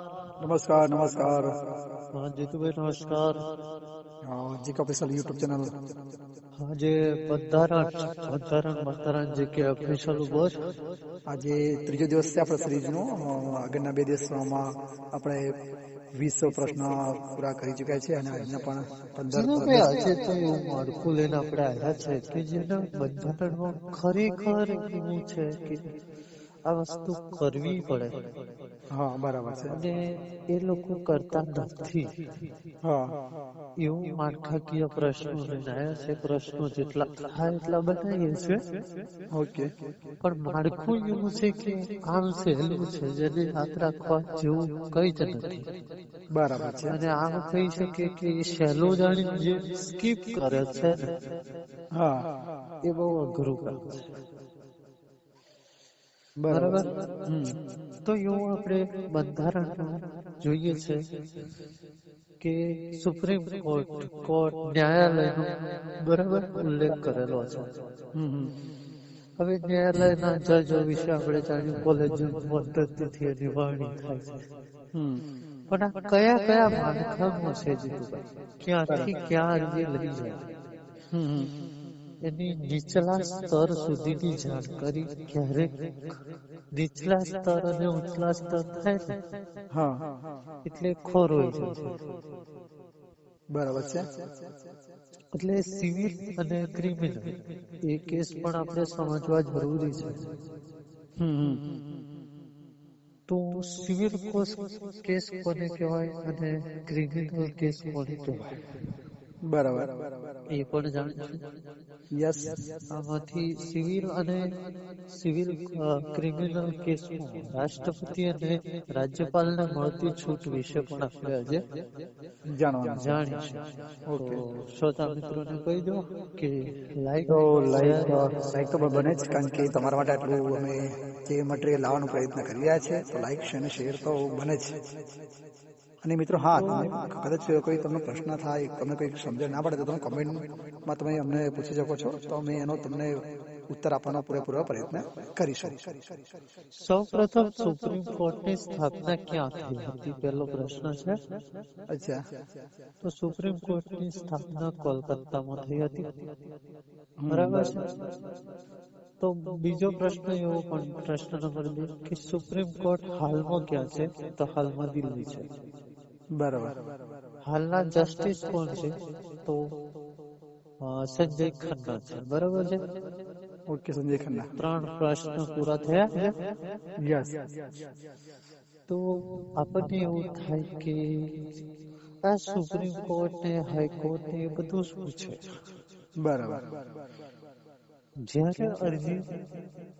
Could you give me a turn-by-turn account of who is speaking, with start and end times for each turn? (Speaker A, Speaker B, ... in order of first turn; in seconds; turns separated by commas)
Speaker A: 0.4-1.5, Speaker B: 2.1-3.4, Speaker A: 4.3-5.6, Speaker B: 6.6-10.5, Speaker A: 11.3-15.5, Speaker A: 16.2-19.9, Speaker B: 19.3-25.8, Speaker B: 26.7-28.1, Speaker A: 28.9-29.7, Speaker B: 29.7-32.1, Speaker A: 32.8-33.1, Speaker B: 33.8-38.6, Speaker A: 39.3-39.7, Speaker B: 40.2-45.6, Speaker A: 46.3-47.0, Speaker B: 46.9-51.1, Speaker A: 51.9-52.3, Speaker B: 52.9-54.0, Speaker A: 56.4-57.5, Speaker B: 56.5-56.9, Speaker B: 58.0-61.0, Speaker B: 62.4-65.5, Speaker B: 66.0-67.7, Speaker A: 68.2-68.5, Speaker B: 69.4-74.4, Speaker A: 74.9-75.2, Speaker B: 75.7-80.4, Speaker A: 81.1-81.5, Speaker B: 82.3-85.7, Speaker B: 86.7-89.1, Speaker A: 89.7-90.0, Speaker B: 90.6-91.9, Speaker A: 93.5-94.0, Speaker B: 95.3-97.3, Speaker B: 97.8-100.2, Speaker A: 101.2-101.6, Speaker B: 103.3-108.5, Speaker A: 109.5-109.9, Speaker B: 110.5-111.4, Speaker A: 112.1-112.5, Speaker B: 112.9-114.4, Speaker B: 115.1-121.6, Speaker A: 122.5-123.2, Speaker B: 123.0-123.6, Speaker A: 124.1-124.4, Speaker B: 124.2-129.3, Speaker A: 127.3-134.7, Speaker A: 136.0-143.1, Speaker B: 136.6-136.9, Speaker A: 143.7-145.9, Speaker B: 146.8-151.2, Speaker A: 151.9-152.2, Speaker B: 153.0-156.0, Speaker A: 157.2-157.8, Speaker B: 157.3-157.8, Speaker B: 159.2-165.4, Speaker A: 166.3-166.7, Speaker B: 167.4-168.9, Speaker B: 170.8-172.8, Speaker A: 173.7-174.5, Speaker B: 174.6-176.3, Speaker A: 177.1-177.5, Speaker B: 179.6-181.5, Speaker B: 182.2-185.4, Speaker A: 186.2-186.6, Speaker B: 188.2-189.2